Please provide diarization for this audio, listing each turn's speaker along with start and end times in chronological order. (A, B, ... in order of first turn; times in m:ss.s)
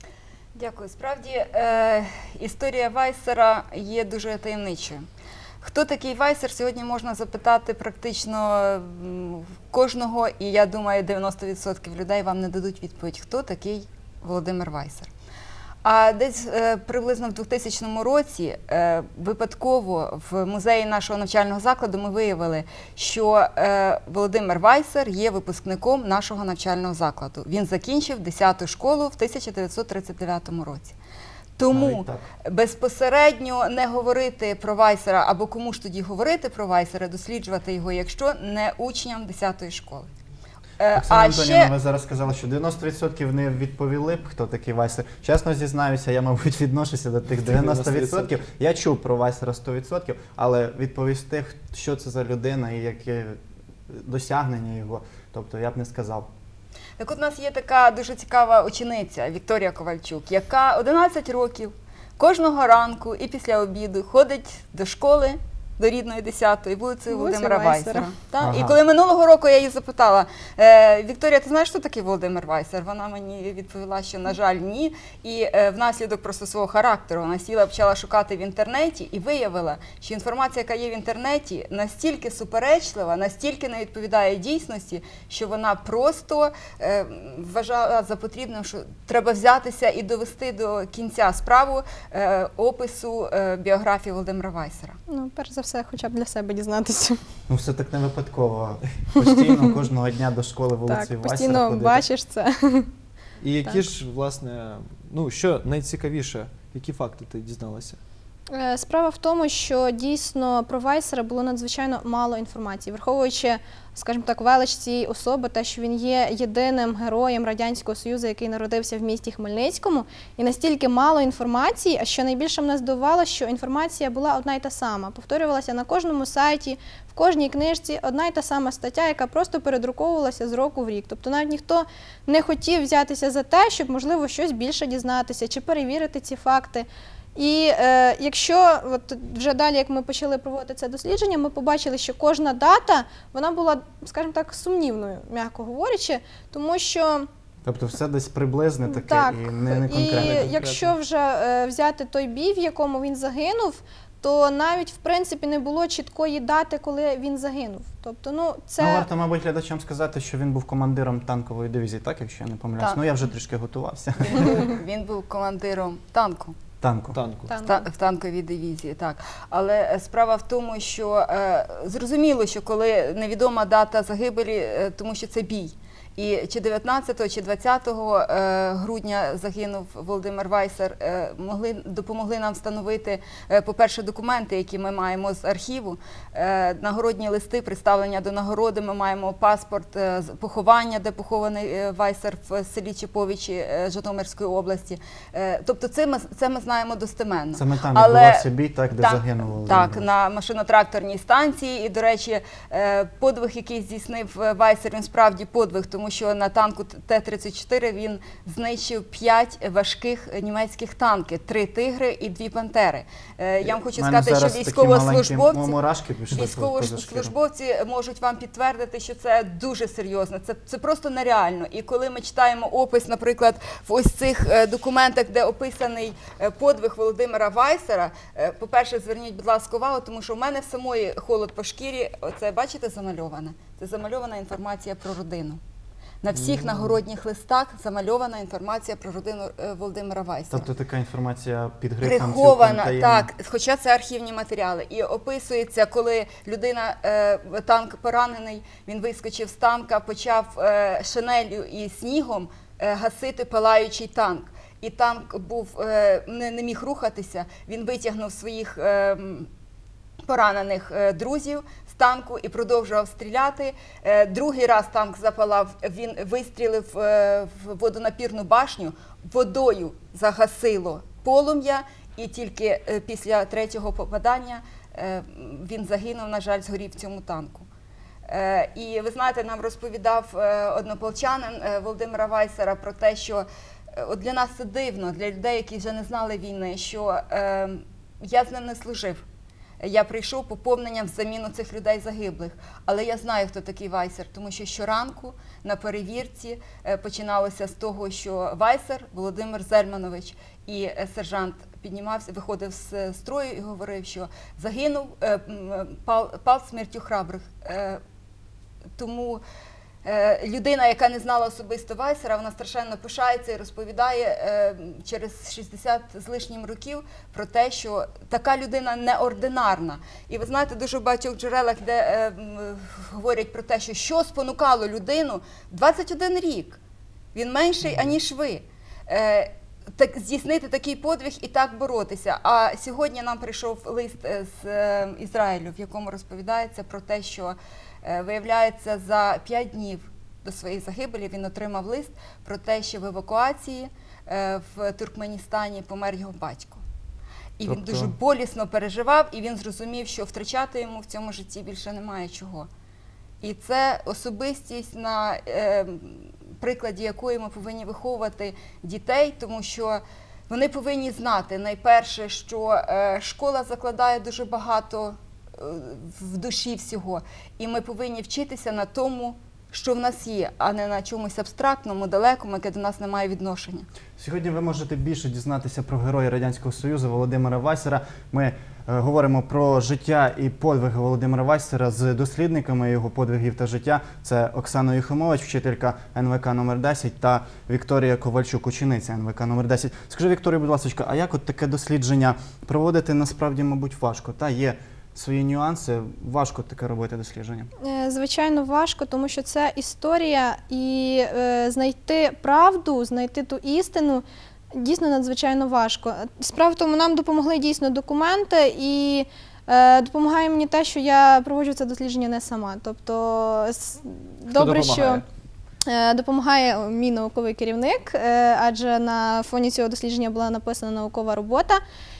0:00.6-0:05.0 A
0:05.6-0:15.1 A
0:15.8-0:30.9 A
0:31.6-0:40.1 A
0:31.7-0:32.2 B
0:40.8-0:41.7 A
0:40.9-0:53.4 B
0:47.4-0:48.3 C
0:53.9-0:56.3 B
0:57.0-1:35.0 A
1:07.1-1:08.1 D
1:08.4-1:08.8 B
1:35.1-1:37.2 D
1:37.5-1:42.0 B
1:40.9-1:42.9 D
1:43.4-1:48.0 C
1:48.5-2:27.3 D
2:27.6-2:30.5 B
2:28.8-2:39.1 D
2:30.1-2:30.9 C
2:38.8-2:44.5 B
2:44.2-2:46.5 A
2:46.8-2:47.2 B
2:47.1-2:47.5 C
2:47.5-2:47.8 D
2:47.6-3:35.8 A
3:17.5-3:20.0 B
3:33.6-3:37.3 B
3:36.3-3:55.6 A
3:56.2-4:00.7 A
4:00.5-4:03.3 B
4:02.0-4:19.5 A
4:20.2-4:37.6 A
4:38.3-4:49.2 A
4:49.8-5:08.0 A
5:09.0-5:09.4 A
5:10.0-5:26.8 A
5:27.3-5:46.8 A
5:47.6-5:52.7 A
5:47.7-5:48.1 B
5:53.4-6:13.8 A
6:14.2-6:37.7 B
6:37.8-6:55.2 D
6:54.5-6:55.2 C
6:55.8-7:01.8 D